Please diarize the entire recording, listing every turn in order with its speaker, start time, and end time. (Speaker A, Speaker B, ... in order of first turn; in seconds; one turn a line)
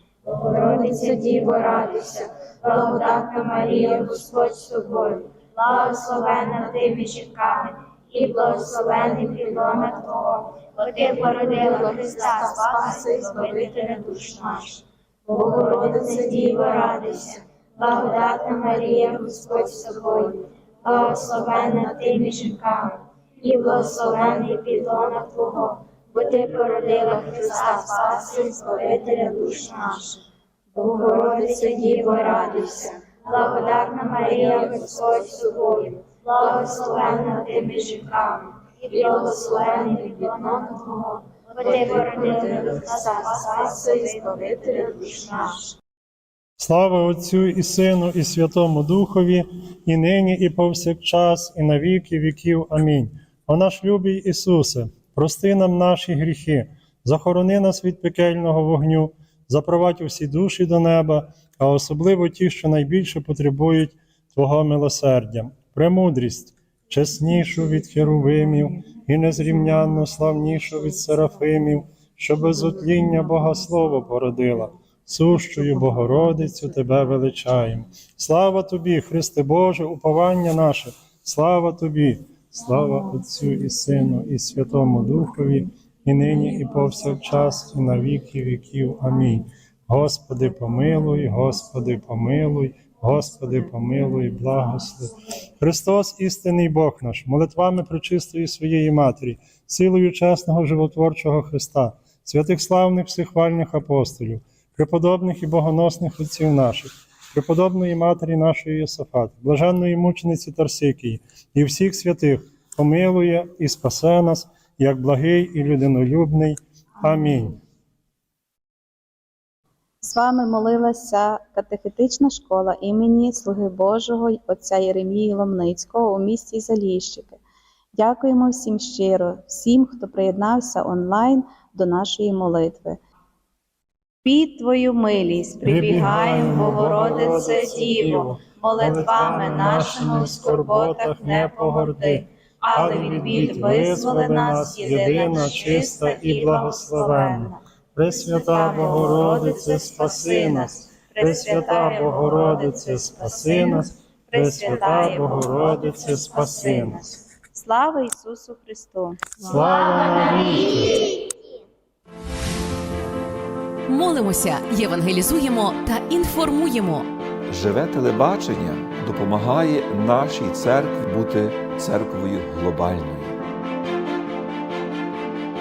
Speaker A: 0.2-30.2
Speaker A: 30.7-45.6
Speaker B: 46.6-117.6
Speaker C: 120.0-127.4
Speaker C: 127.9-133.0
Speaker C: 134.2-147.6
Speaker B: 135.6-157.1
Speaker C: 148.1-159.2
Speaker B: 159.4-161.0
Speaker A: 160.4-160.8
Speaker D: 163.9-167.1
Speaker E: 167.5-173.4